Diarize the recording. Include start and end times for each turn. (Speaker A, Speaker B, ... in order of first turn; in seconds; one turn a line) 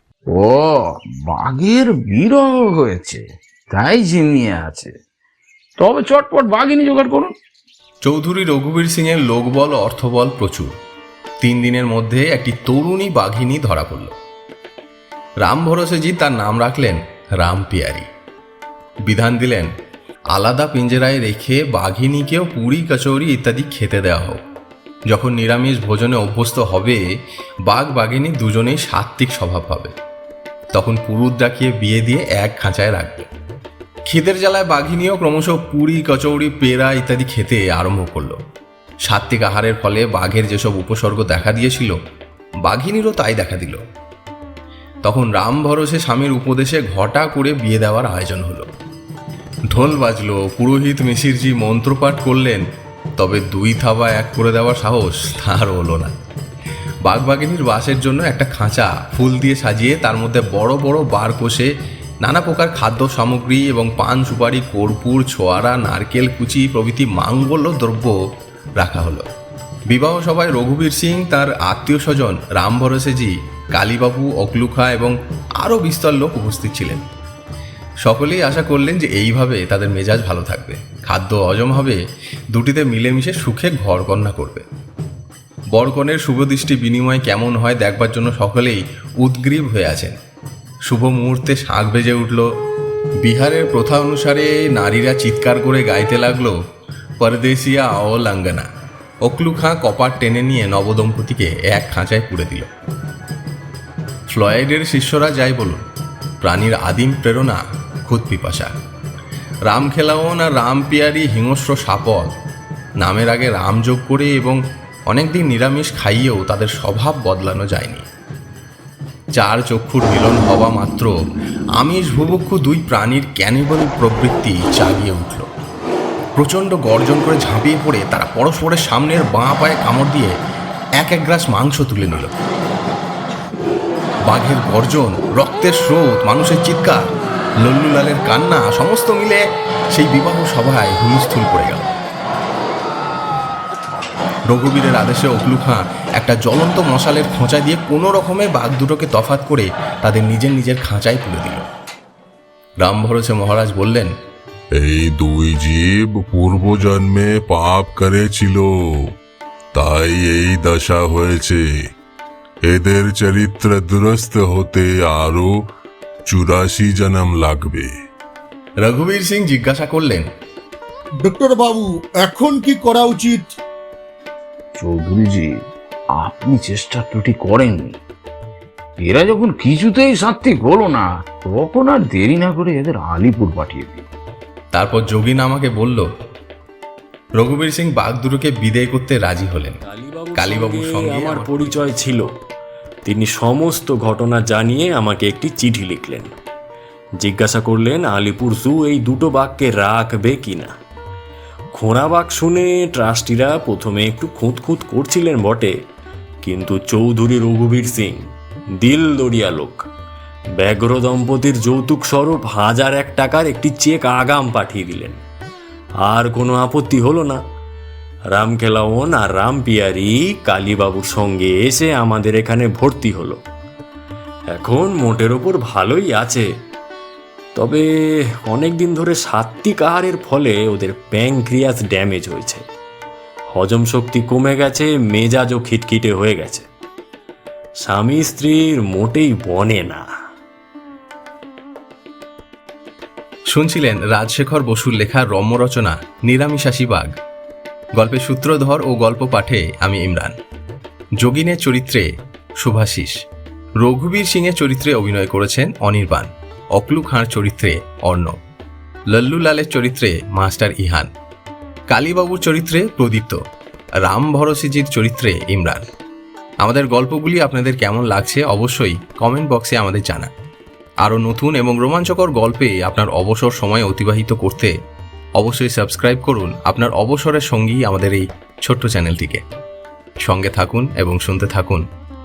Speaker A: 0.3-4.9
Speaker A: 5.8-7.3
Speaker B: 8.1-10.7
Speaker B: 11.4-14.1
Speaker B: 15.4-18.1
Speaker B: 19.1-19.7
Speaker B: 20.3-24.4
Speaker B: 25.1-27.0
Speaker B: 27.7-29.9
Speaker B: 30.7-33.3
Speaker B: 34.1-38.4
Speaker B: 39.1-42.0
Speaker B: 42.6-43.8
Speaker B: 45.0-48.7
Speaker B: 49.7-52.6
Speaker B: 53.2-56.1
Speaker B: 57.1-61.7
Speaker B: 62.2-68.1
Speaker B: 68.8-69.3
Speaker B: 69.9-77.0
Speaker B: 78.0-82.0
Speaker B: 82.5-84.7
Speaker B: 85.7-90.2
Speaker B: 90.9-92.5
Speaker B: 93.2-96.5
Speaker B: 97.2-98.7
Speaker B: 99.2-102.7
Speaker B: 104.3-105.8
Speaker B: 106.4-108.7
Speaker B: 109.7-112.3
Speaker B: 113.0-114.6
Speaker B: 115.1-118.1
Speaker B: 119.4-121.1
Speaker B: 121.8-125.5
Speaker B: 126.4-130.3
Speaker B: 131.0-132.3
Speaker B: 134.3-137.0
Speaker B: 137.6-139.4
Speaker B: 139.9-141.9
Speaker B: 144.5-151.7
Speaker B: 152.8-154.1
Speaker C: 154.8-158.7
Speaker C: 159.7-161.6
Speaker C: 162.7-165.5
Speaker C: 166.3-167.9
Speaker B: 168.8-170.3
Speaker D: 171.2-173.5
Speaker A: 174.8-175.5
Speaker A: 176.2-178.0
Speaker A: 179.0-184.1
Speaker B: 184.7-186.1
Speaker B: 187.4-189.8
Speaker E: 189.8-192.3
Speaker B: 190.3-191.9
Speaker E: 193.1-196.3
Speaker E: 197.2-200.7
Speaker E: 201.8-205.7
Speaker E: 206.4-208.2
Speaker E: 208.8-209.9
Speaker E: 210.6-215.2
Speaker E: 216.0-217.4
Speaker E: 218.3-223.4
Speaker E: 224.5-226.5
Speaker E: 227.6-232.6
Speaker E: 233.5-236.7
Speaker E: 237.8-240.1
Speaker B: 243.5-247.1
Speaker B: 248.0-250.4
Speaker B: 251.2-252.1
Speaker B: 252.6-253.2
Speaker B: 253.8-258.4
Speaker B: 259.1-261.1
Speaker B: 261.9-263.4
Speaker B: 264.1-265.8
Speaker B: 266.6-270.3
Speaker B: 271.0-274.7
Speaker B: 275.4-279.4
Speaker B: 280.2-281.9